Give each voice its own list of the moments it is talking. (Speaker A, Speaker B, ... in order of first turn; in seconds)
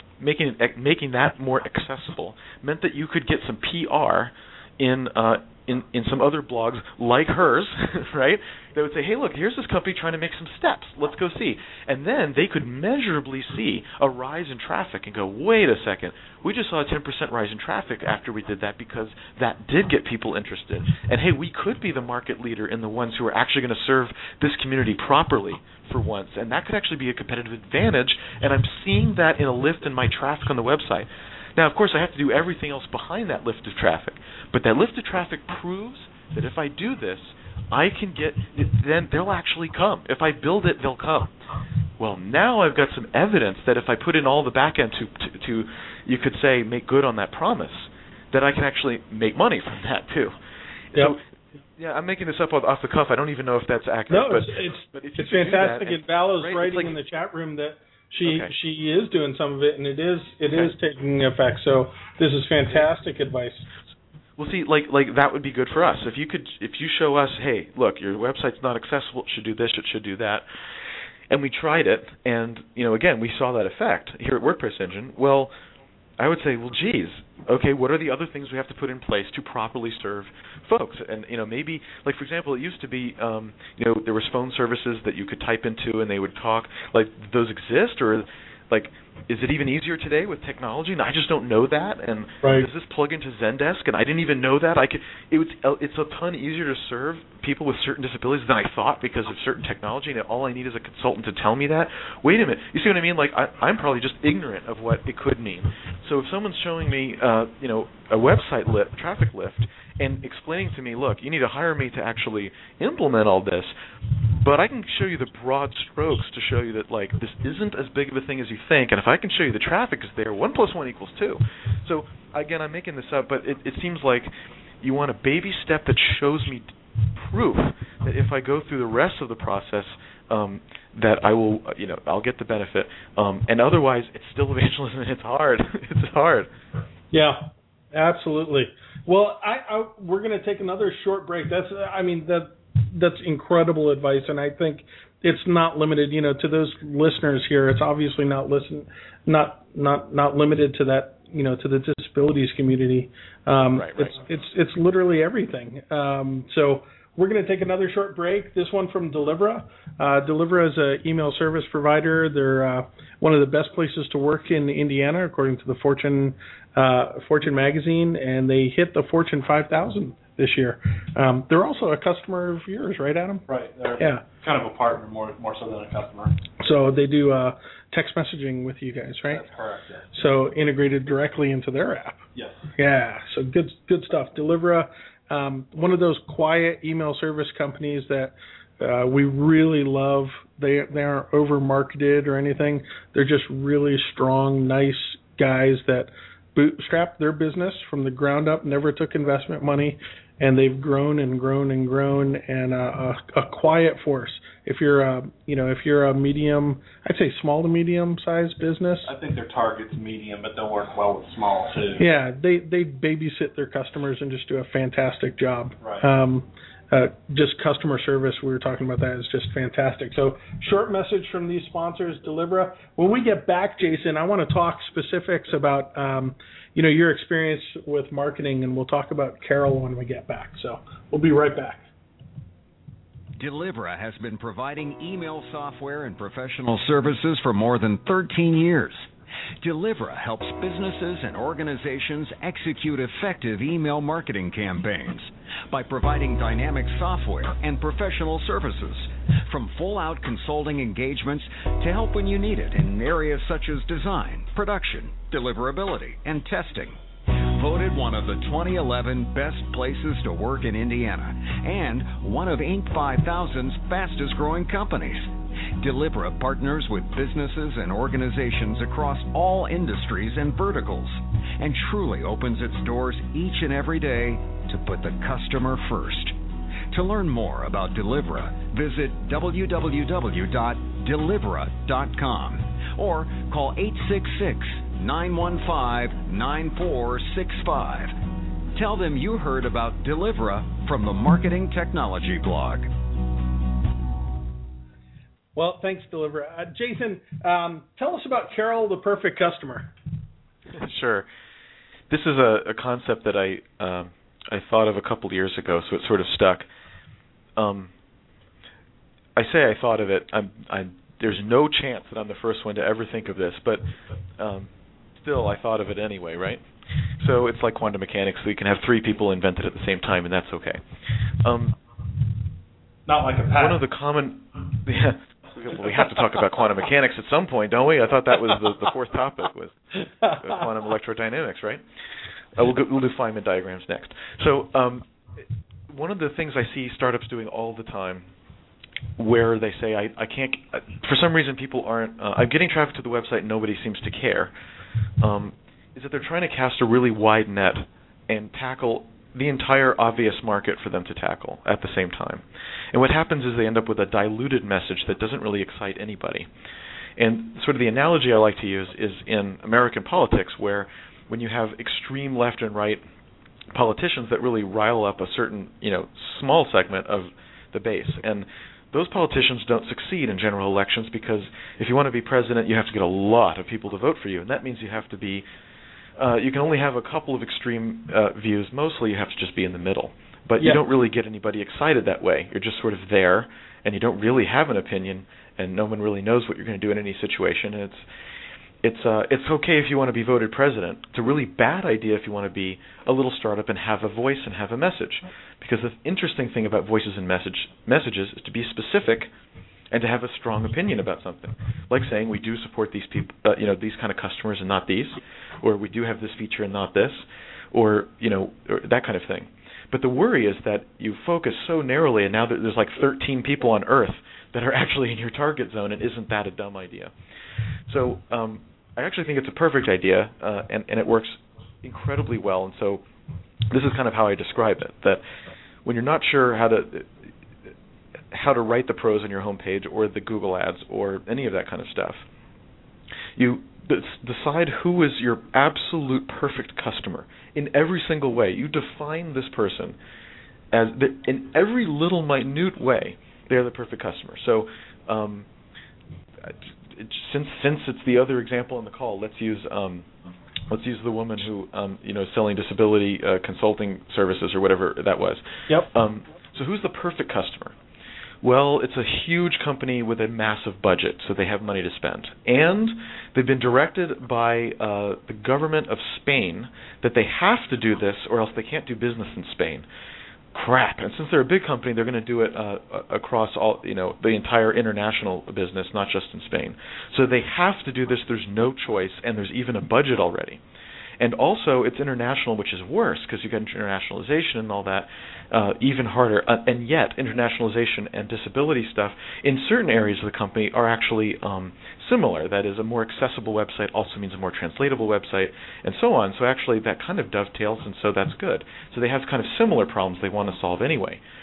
Speaker A: 0.2-41.3, 42.0-50.4, 50.9-51.2, 51.8-56.9, 58.2-58.5, 64.4-70.4, 71.3-75.5, 76.2-113.7, 114.3-124.3, 124.8-136.5, 153.7-154.1, 300.7-301.3, 302.1-306.6, 307.6-307.9, 309.4-313.9, 314.4-316.6, 317.2-320.8, 321.4-321.7, 323.6-331.8, 332.6-335.1, 335.9-338.3, 339.2-344.5, 345.2-356.5, 357.2-363.0, 363.7-375.4, 376.2-388.0, 388.8-399.3, 399.9-417.1, 417.9-423.0, 423.7-425.2, 425.8-427.1, 428.3-432.2, 433.4-440.0, 440.7-445.5, 446.4-450.1, 450.7-457.7, 458.4-469.9, 470.5-480.6, 481.2-501.2
Speaker B: 54.1-63.7, 137.1-173.4, 174.0-174.2, 176.6-179.4, 180.1-182.2, 182.8-209.1, 212.0-231.8, 295.5-299.9, 323.1-323.8
Speaker C: 173.5-176.4, 179.3-180.1, 182.3-182.6, 209.0-212.0
Speaker D: 233.3-239.1, 239.6-276.4, 276.9-288.1, 288.7-292.9